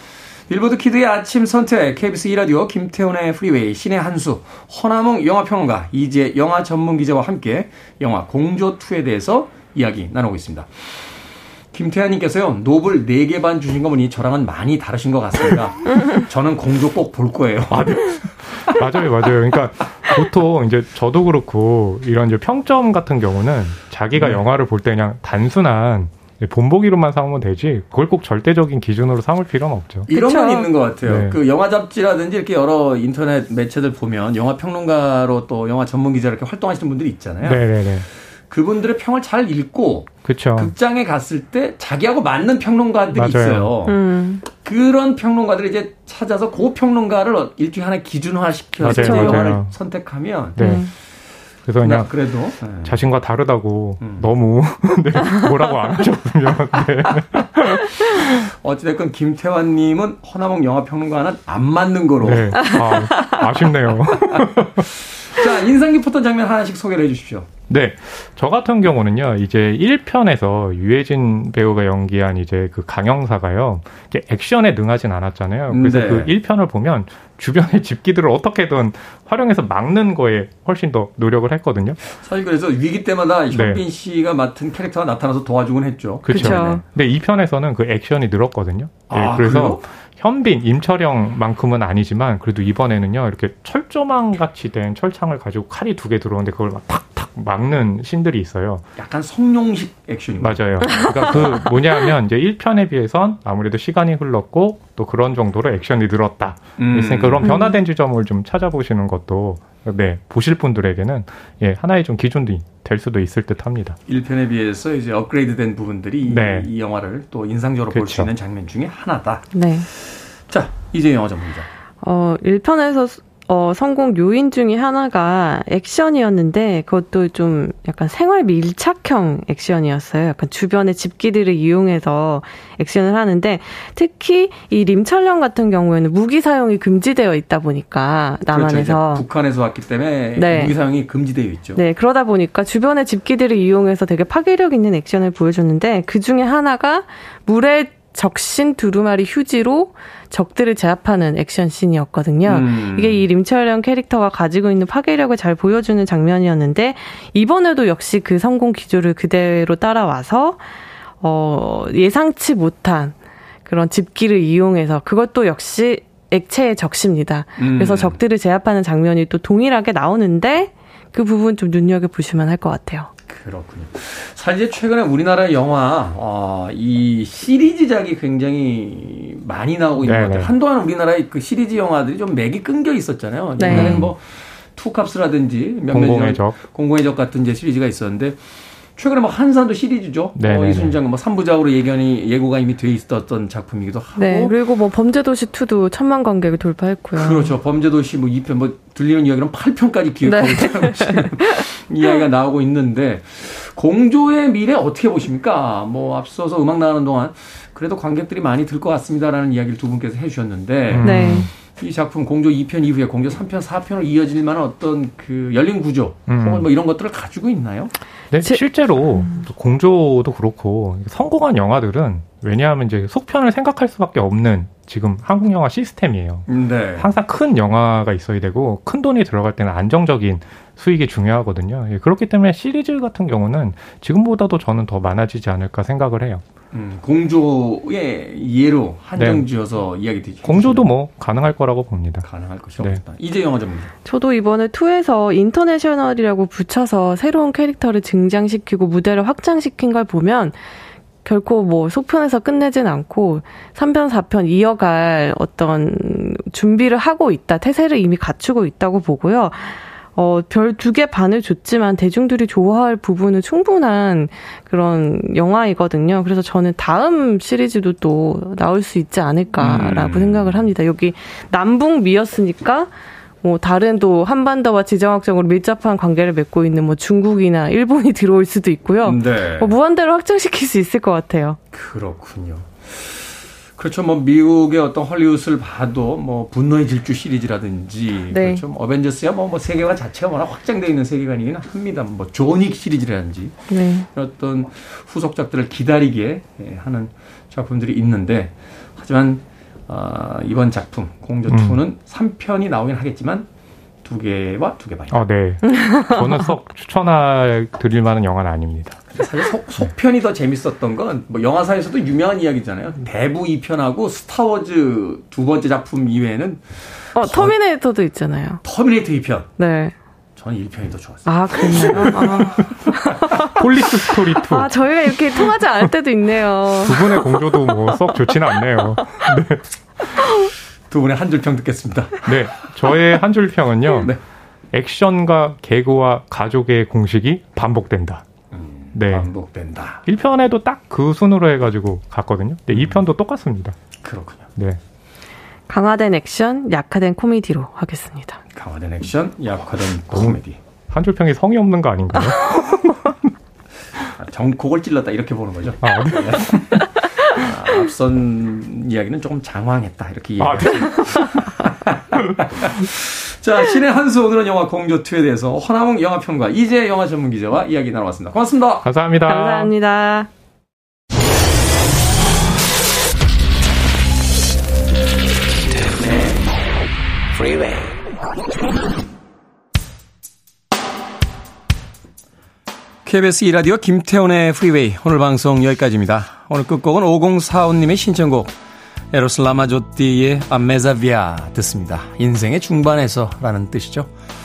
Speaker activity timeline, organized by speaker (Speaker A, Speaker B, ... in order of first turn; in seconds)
Speaker A: 0.5-11.1, 11.7-18.2, 24.1-24.4, 30.1-50.6, 51.8-53.0, 54.0-54.3, 58.2-62.8, 64.3-67.5, 75.7-76.3, 82.0-86.8, 89.1-89.8, 99.0-101.7, 106.8-107.5, 114.1-121.7, 138.5-141.8, 152.4-153.3, 167.6-168.2, 173.3-188.4, 188.9-194.6, 197.1-217.9, 226.5-227.1, 236.7-240.9, 242.2-243.9, 269.6-270.7, 279.0-279.8, 281.7-303.5, 304.0-305.3, 309.1-317.6, 318.6-319.5, 320.4-322.4, 330.9-332.4, 338.5-340.0, 342.7-343.0, 344.0-344.5, 348.5-350.6, 354.1-356.5, 357.2-368.9, 383.0-388.5, 389.1-394.1
Speaker B: 17.7-30.1, 31.0-31.4, 37.4-38.0, 40.2-40.7, 43.1-43.8, 48.8-49.7, 50.6-50.9, 51.6-52.1, 52.8-58.5, 62.2-64.9, 67.7-82.0, 83.5-83.8, 86.2-98.8, 100.4-114.0, 116.2-116.7, 117.9-118.3, 180.0-180.5, 183.7-184.1, 185.9-186.6, 190.3-190.9, 210.9-211.5, 216.3-216.7, 218.3-236.4, 239.2-239.5, 240.4-242.3, 301.5-301.8, 305.1-309.0, 321.7-325.9, 326.8-330.0, 332.2-334.1, 334.7-338.2, 338.9-339.3, 340.1-343.8, 350.1-353.3, 355.8-356.9, 360.4-361.4, 368.8-369.7
Speaker C: 30.1-30.7, 43.9-44.4, 48.9-49.6, 50.6-50.9, 62.6-63.4, 86.3-86.8, 100.8-101.6, 107.5-107.7, 119.5-119.9, 122.0-139.2, 140.3-140.8, 141.8-160.6, 161.2-173.1, 183.6-184.1, 194.2-197.5, 200.2-201.6, 211.0-211.5, 218.4-219.4, 244.0-250.6, 251.2-281.6, 288.3-288.6, 293.7-294.1, 305.6-306.2, 317.1-318.6, 319.6-319.9, 321.2-329.1, 345.7-348.4, 369.2-370.3